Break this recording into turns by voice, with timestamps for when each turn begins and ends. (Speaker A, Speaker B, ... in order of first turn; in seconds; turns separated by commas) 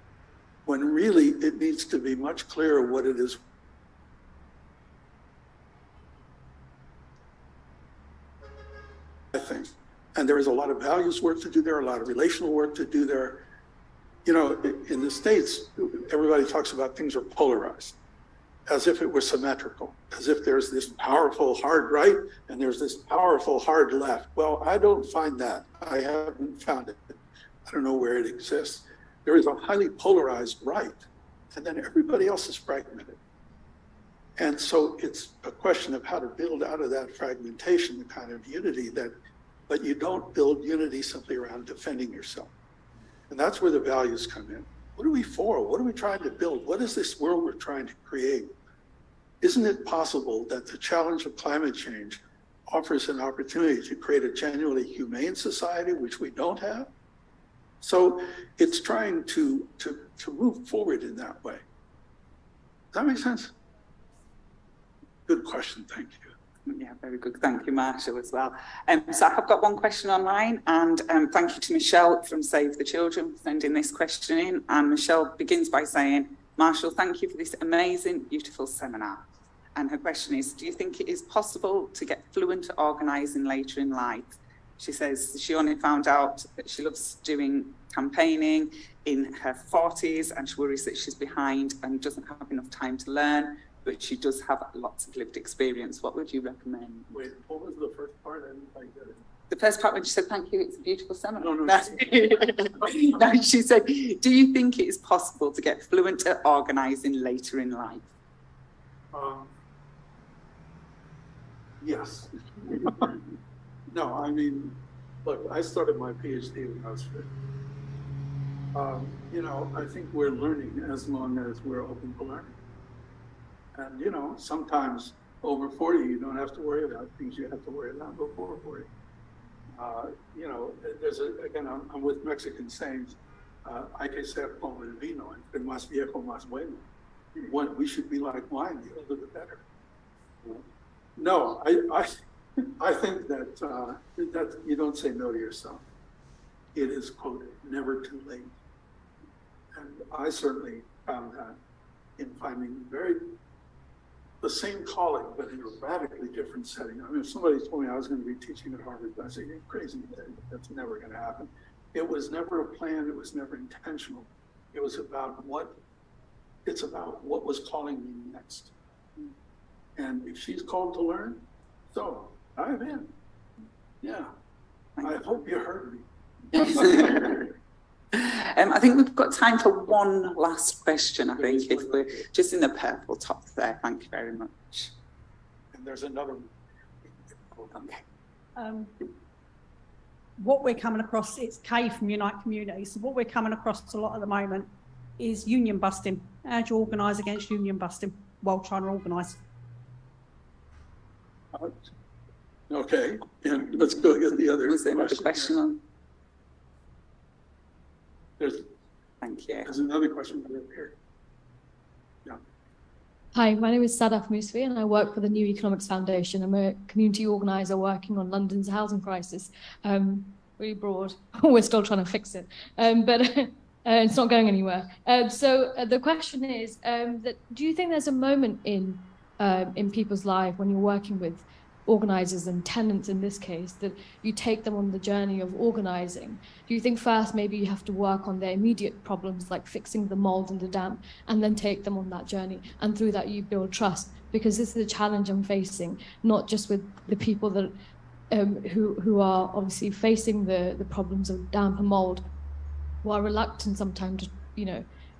Speaker A: 0.7-3.4, Speaker A: 9.3-13.4, Speaker A: 14.2-17.9, Speaker A: 18.7-33.2, Speaker A: 34.4-39.1, Speaker A: 39.7-42.5, Speaker A: 43.3-48.5, Speaker A: 49.4-56.9, Speaker A: 57.8-61.6, Speaker A: 62.9-63.5, Speaker A: 65.3-66.3, Speaker B: 66.7-79.2, Speaker B: 79.8-97.1, Speaker A: 97.1-99.2, Speaker B: 99.5-108.1, Speaker A: 101.4-102.1, Speaker A: 109.1-109.5, Speaker A: 111.8-113.2, Speaker A: 113.9-117.3, Speaker A: 118.7-122.5, Speaker A: 123.7-128.9, Speaker A: 129.8-139.6, Speaker A: 141.2-142.1, Speaker A: 142.8-145.8, Speaker A: 146.7-148.5, Speaker A: 149.7-151.6, Speaker A: 152.2-153.2, Speaker A: 154.4-165.8, Speaker A: 166.6-168.7, Speaker A: 169.9-173.1, Speaker A: 174.0-174.3, Speaker A: 175.0-177.5, Speaker B: 176.5-177.4, Speaker B: 178.1-184.9, Speaker A: 181.3-182.2, Speaker A: 185.7-186.5, Speaker A: 187.1-188.0, Speaker C: 188.6-188.9, Speaker C: 190.4-199.4, Speaker A: 202.7-205.5, Speaker B: 204.6-205.8, Speaker A: 208.4-208.7, Speaker B: 209.2-209.7, Speaker A: 209.6-210.9, Speaker D: 213.3-247.7, Speaker D: 248.3-252.3, Speaker D: 253.0-254.8